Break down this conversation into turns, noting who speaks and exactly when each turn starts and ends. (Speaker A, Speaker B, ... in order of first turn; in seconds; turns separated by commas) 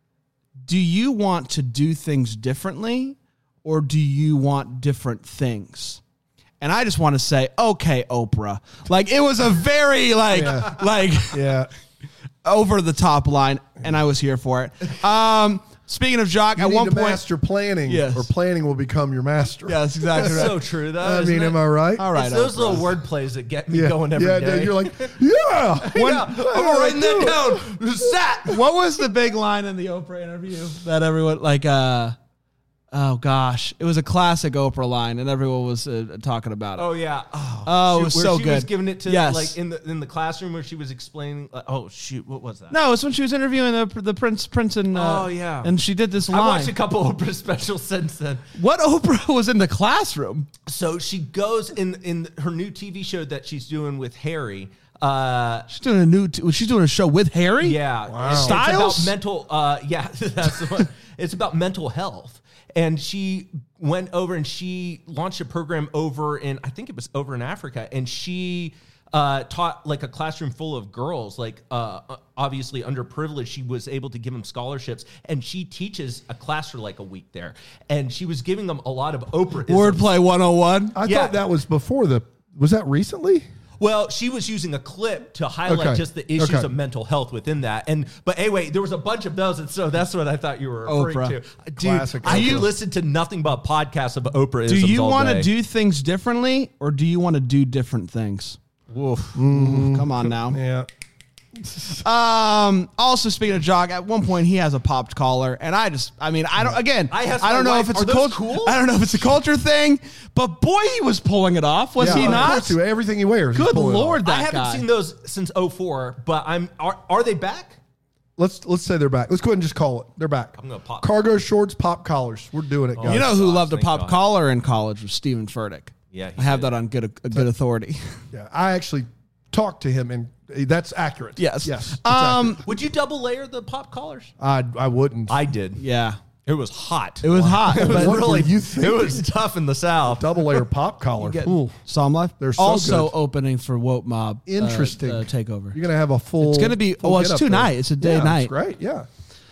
Speaker A: 0.6-6.0, Speaker A: 6.6-11.5, Speaker B: 10.3-10.8, Speaker B: 11.3-11.7, Speaker A: 12.4-17.2, Speaker B: 16.6-22.1, Speaker A: 17.9-18.3, Speaker A: 19.7-20.6, Speaker C: 20.1-21.6, Speaker A: 22.0-22.8, Speaker C: 22.1-25.2, Speaker B: 23.7-27.7, Speaker C: 25.8-28.6, Speaker A: 28.4-32.1, Speaker A: 32.9-36.9, Speaker C: 36.8-42.7, Speaker A: 37.6-39.5, Speaker A: 42.7-46.7, Speaker C: 44.9-45.7, Speaker C: 46.3-48.4, Speaker A: 48.5-50.5, Speaker C: 50.6-55.7, Speaker A: 55.7-59.1, Speaker C: 57.6-80.0, Speaker B: 58.1-58.6, Speaker A: 79.7-81.0, Speaker B: 80.9-83.5, Speaker C: 81.0-81.3, Speaker C: 83.8-95.5, Speaker B: 85.7-86.7, Speaker A: 90.8-91.3, Speaker B: 91.8-92.7, Speaker A: 92.2-92.7, Speaker A: 94.7-98.6, Speaker C: 98.9-99.4, Speaker B: 99.3-100.9, Speaker A: 99.4-100.6, Speaker B: 101.7-102.0, Speaker A: 102.0-112.8, Speaker C: 107.1-108.8, Speaker B: 112.0-114.2, Speaker C: 112.0-112.6, Speaker A: 113.5-114.8, Speaker C: 114.2-117.8, Speaker B: 118.4-123.3, Speaker C: 120.6-121.2, Speaker C: 122.9-124.2, Speaker A: 123.0-128.2, Speaker C: 126.1-126.7, Speaker B: 128.3-132.6, Speaker A: 131.4-132.6, Speaker C: 132.6-134.3, Speaker B: 134.4-135.4, Speaker C: 135.3-135.8, Speaker A: 135.8-136.2, Speaker C: 136.4-140.6, Speaker A: 137.2-138.4, Speaker B: 137.7-139.2, Speaker B: 140.1-141.8, Speaker A: 141.2-145.8, Speaker B: 142.4-143.1, Speaker B: 144.5-149.1, Speaker A: 146.4-148.5